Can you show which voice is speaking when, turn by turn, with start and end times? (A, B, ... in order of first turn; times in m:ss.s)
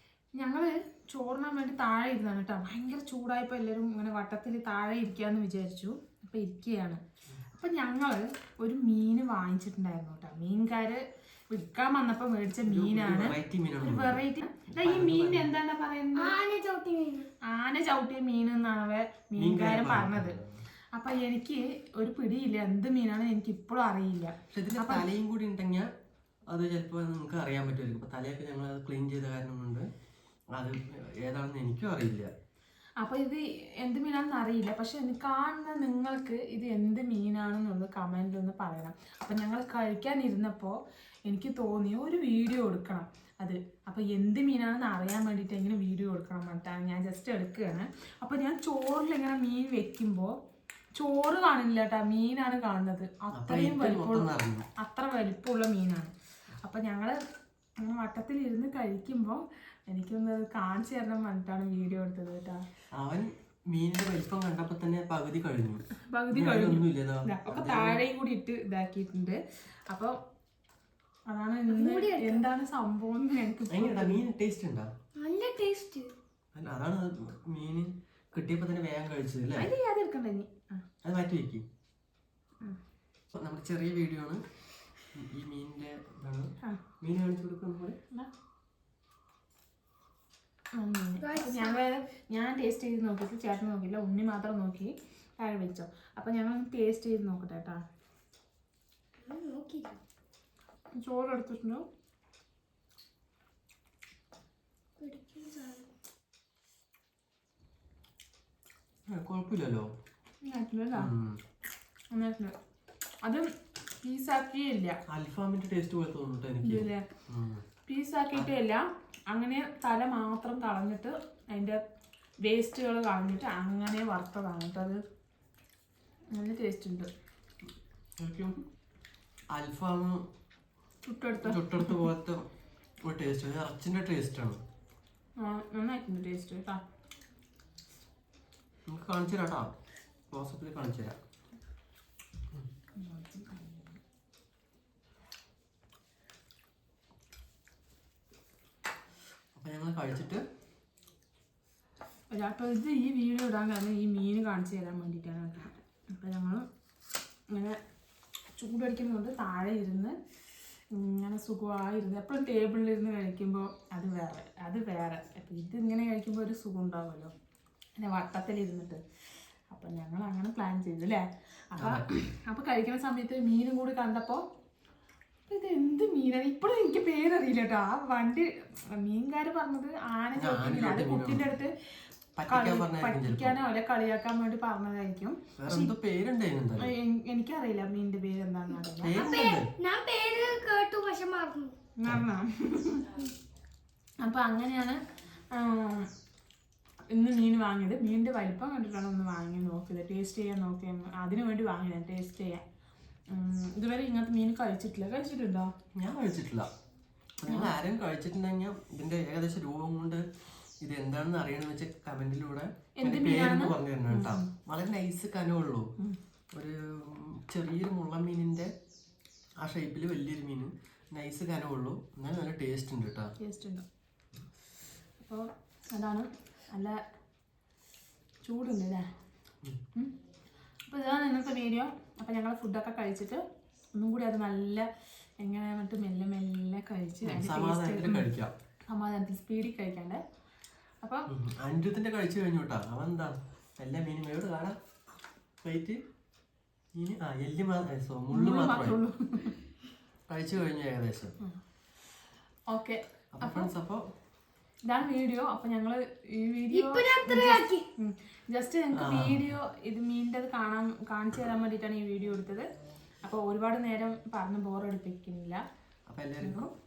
0:00.4-0:07.0 A
0:07.5-0:16.4 A
0:12.7-0:14.2 B
0:14.7-0:15.5 B
0:16.2-0:17.3 C
0:17.4-0:20.4 A
0:19.4-0:20.5 B
0:20.9-0:25.1 A
0:24.5-0:25.9 B
0:26.5-0:29.9 B
0:30.6-0:32.3 B
0:33.0-0:50.3 A
0:51.0-0:57.2 A
0:53.3-0:54.7 B
0:57.8-1:02.6 A
1:03.0-1:08.0 B
1:06.1-1:10.2 A
1:11.3-1:14.2 A
1:11.7-1:12.5 C
1:13.7-1:14.9 B
1:15.2-1:16.1 C
1:16.6-1:19.7 B
1:19.6-1:20.8 A
1:21.0-1:21.6 B
1:23.3-1:24.4 B
1:25.1-1:28.0 B
1:30.8-1:37.8 A
1:31.2-1:31.8 C
1:39.2-1:40.0 C
1:41.0-1:41.8 A
1:45.0-1:45.9 C
1:49.1-1:49.9 B
1:50.4-1:51.1 A
1:50.9-1:51.4 B
1:52.1-1:52.5 A
1:54.0-1:55.0 A
1:55.1-1:57.6 B
1:56.6-1:57.0 A
1:57.9-2:01.8 A
2:02.4-2:05.0 A
2:06.3-2:07.1 A
2:08.2-2:08.6 B
2:09.5-2:10.2 B
2:11.0-2:12.1 A
2:11.4-2:12.4 B
2:13.1-2:14.6 B
2:15.4-2:16.8 A
2:18.9-2:19.7 B
2:20.3-2:21.2 B
2:23.0-2:24.0 A
2:29.6-2:30.4 B
2:32.3-2:36.7 A
2:37.5-2:37.8 A
2:38.5-2:40.2 A
2:40.9-2:47.3 A
2:48.0-2:49.0 A
2:49.7-2:54.4 A
2:51.8-2:52.1 B
2:55.5-3:01.7 A
3:00.4-3:01.5 B
3:02.4-3:03.6 B
3:02.5-3:05.9 A
3:05.6-3:06.9 B
3:06.8-3:09.2 A
3:09.0-3:09.7 B
3:09.1-3:11.8 C
3:12.0-3:13.1 A
3:14.2-3:15.0 A
3:15.5-3:16.1 A
3:17.1-3:22.6 A
3:23.3-3:25.7 A
3:26.0-3:26.7 B
3:27.4-3:30.2 B
3:27.5-3:27.7 A
3:30.8-3:35.9 B
3:33.0-3:34.5 A
3:36.5-3:38.7 B
3:39.6-3:43.3 B
3:43.4-3:43.8 A
3:45.2-3:47.0 A
3:48.4-3:49.1 A
3:50.9-3:53.4 A
3:53.9-3:54.9 A
3:55.4-3:58.3 A
3:57.2-3:58.5 B
3:58.9-4:00.2 A
4:01.0-4:01.3 A
4:01.3-4:04.8 B
4:05.6-4:06.0 B
4:07.0-4:09.0 B
4:08.3-4:09.6 A
4:10.3-4:11.4 B
4:12.7-4:13.7 A
4:13.4-4:14.1 B
4:14.8-4:22.7 A
4:16.7-4:17.9 C
4:18.9-4:19.5 B
4:23.2-4:25.6 A
4:26.1-4:26.7 B
4:26.4-4:26.7 A